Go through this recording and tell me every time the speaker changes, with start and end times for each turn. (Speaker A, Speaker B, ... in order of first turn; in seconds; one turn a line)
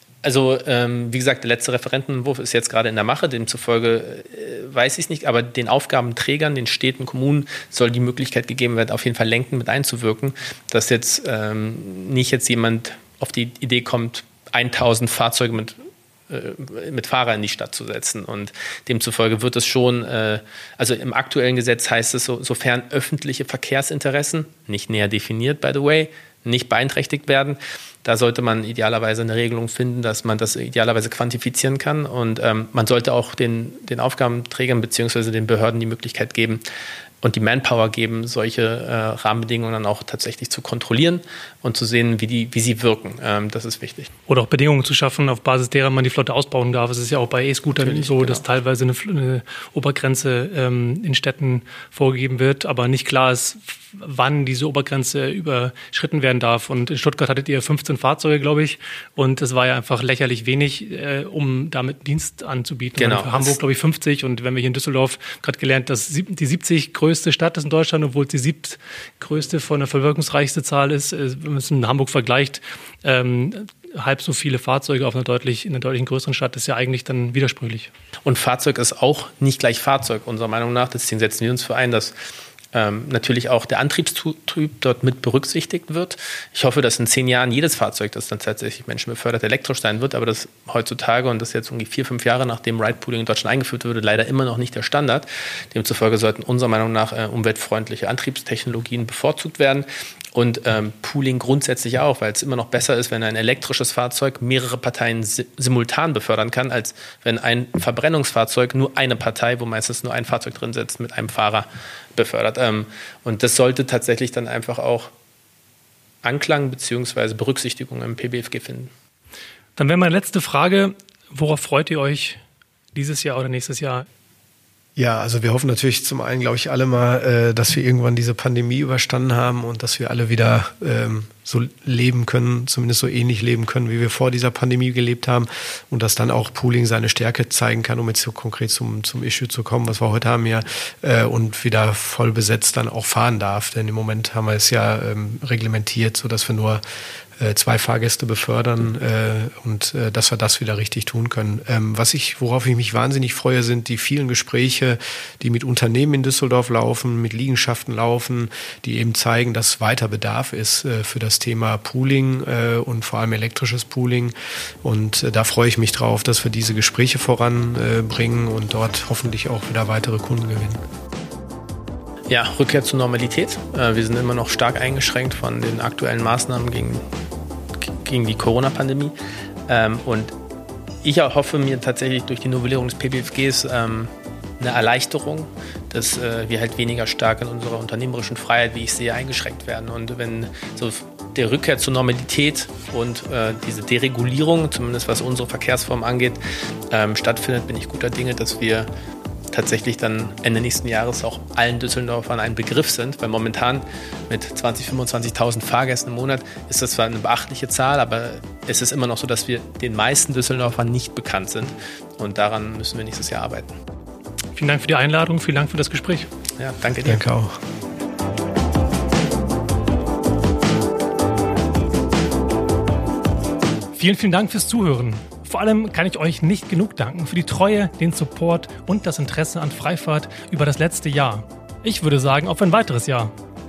Speaker A: 0.2-15.8
Speaker A: 16.3-36.6
Speaker A: 37.2-44.1
Speaker B: 44.3-77.9
Speaker A: 47.8-48.4
Speaker A: 63.0-63.6
Speaker A: 78.2-82.1
Speaker A: 82.7-115.1
Speaker A: 116.2-118.9
Speaker B: 119.8-122.4
Speaker B: 122.9-124.0
Speaker C: 125.0-146.8
Speaker C: 147.4-170.8
Speaker A: 172.3-177.0
Speaker A: 177.8-179.1
Speaker A: 179.7-180.3
Speaker A: 181.0-196.4
Speaker A: 196.9-198.9
Speaker A: 199.5-213.7
Speaker B: 214.5-216.3
Speaker A: 216.6-217.2
Speaker C: 217.0-217.6
Speaker B: 223.9-233.3